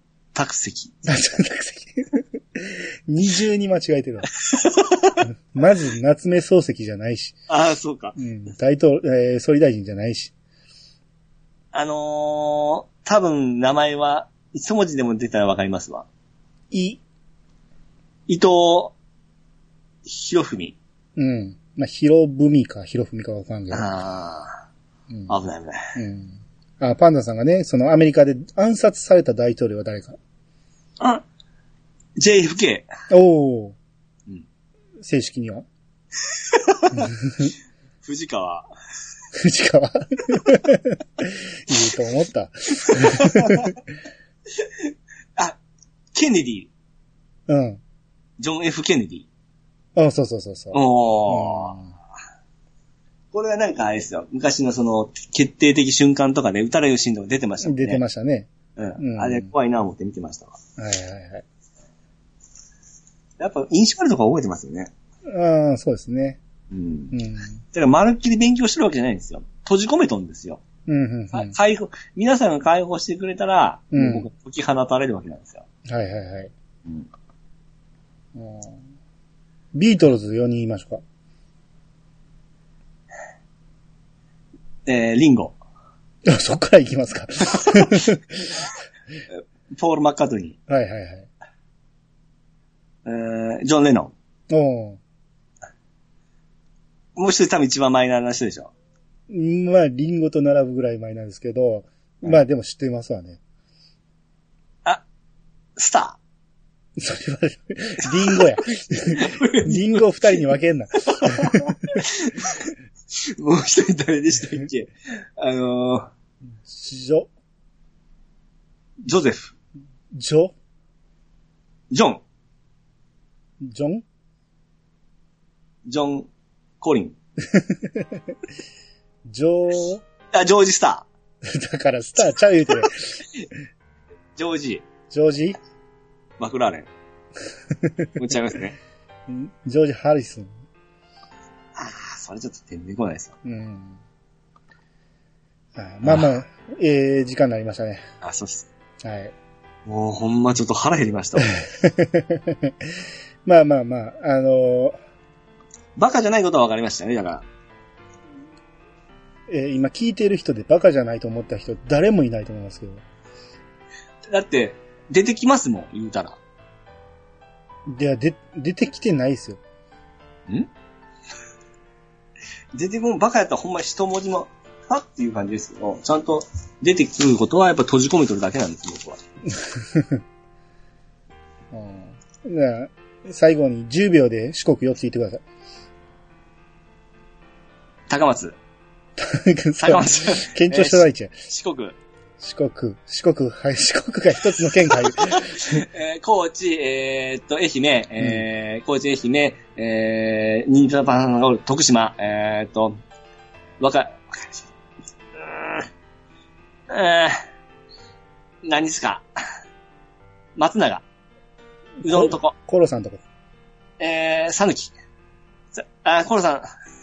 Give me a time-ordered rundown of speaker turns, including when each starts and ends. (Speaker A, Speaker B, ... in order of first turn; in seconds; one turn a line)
Speaker A: 0.3-1.2
Speaker B: 1.1-4.3
Speaker A: 4.5-5.2
Speaker B: 5.2-7.4
Speaker A: 7.5-8.2
Speaker B: 8.2-10.3
Speaker A: 11.7-16.1
Speaker B: 16.7-17.0
Speaker A: 18.3-18.9
Speaker A: 20.1-20.8
Speaker B: 21.2-23.9
Speaker A: 23.7-24.6
Speaker A: 25.3-26.0
Speaker B: 26.0-30.2
Speaker A: 31.0-31.2
Speaker A: 32.2-32.9
Speaker B: 33.1-33.8
Speaker B: 35.0-35.7
Speaker A: 36.3-37.1
Speaker B: 36.9-37.5
Speaker A: 38.0-38.7
Speaker B: 39.3-43.8
Speaker A: 42.8-43.8
Speaker A: 44.6-45.6
Speaker A: 46.1-46.7
Speaker B: 47.5-47.8
Speaker A: 48.4-49.3
Speaker B: 50.0-51.9
Speaker A: 50.7-51.8
Speaker A: 53.3-58.0
Speaker B: 57.6-59.5
Speaker A: 58.8-60.6
Speaker B: 60.8-61.5
Speaker A: 63.4-64.9
Speaker B: 65.3-66.4
Speaker A: 66.7-67.2
Speaker B: 67.1-67.6
Speaker A: 67.7-70.6
Speaker B: 70.9-71.5
Speaker A: 71.3-75.7
Speaker B: 73.9-74.3
Speaker B: 75.8-76.5
Speaker B: 78.3-78.8
Speaker B: 79.7-81.0
Speaker A: 84.9-85.6
Speaker B: 86.2-88.6
Speaker A: 87.6-87.9
Speaker A: 89.7-90.6
Speaker B: 90.7-91.3
Speaker A: 93.0-94.1
Speaker B: 94.5-95.0
Speaker A: 97.2-98.7
Speaker B: 99.3-103.4
Speaker A: 105.8-106.2
Speaker B: 107.0-112.0
Speaker A: 108.0-108.5
Speaker A: 109.1-110.4
Speaker A: 111.0-116.1
Speaker B: 116.6-117.3
Speaker A: 119.0-119.5
Speaker B: 120.1-120.5
Speaker A: 121.9-122.2
Speaker B: 123.6-124.0
Speaker A: 125.9-126.3
Speaker A: 126.8-127.2
Speaker B: 127.5-128.3
Speaker B: 129.3-130.0
Speaker A: 130.3-131.1
Speaker B: 131.4-133.5
Speaker A: 134.4-134.8
Speaker B: 135.1-135.6
Speaker A: 136.4-136.9
Speaker B: 137.7-138.2
Speaker A: 138.2-138.8
Speaker B: 139.3-140.6
Speaker A: 141.8-143.3
Speaker B: 143.4-144.0
Speaker B: 145.8-148.0
Speaker A: 146.0-146.4
Speaker A: 148.2-148.7
Speaker B: 149.0-149.3
Speaker A: 149.9-151.6
Speaker B: 151.5-152.9
Speaker B: 153.4-155.0
Speaker A: 156.0-157.4
Speaker B: 159.5-163.0
Speaker A: 164.3-166.4
Speaker B: 167.9-169.6
Speaker A: 172.7-179.2
Speaker B: 179.6-180.2
Speaker B: 181.7-185.4
Speaker A: 188.1-188.6
Speaker B: 189.2-191.3
Speaker A: 189.8-192.0
Speaker B: 192.4-195.8
Speaker A: 195.1-203.0
Speaker A: 203.8-204.7
Speaker A: 205.4-205.9
Speaker A: 206.9-207.4
Speaker A: 208.7-209.2
Speaker A: 210.6-211.0
Speaker B: 212.0-213.2
Speaker A: 212.0-212.6
Speaker A: 214.0-214.9
Speaker A: 215.7-216.7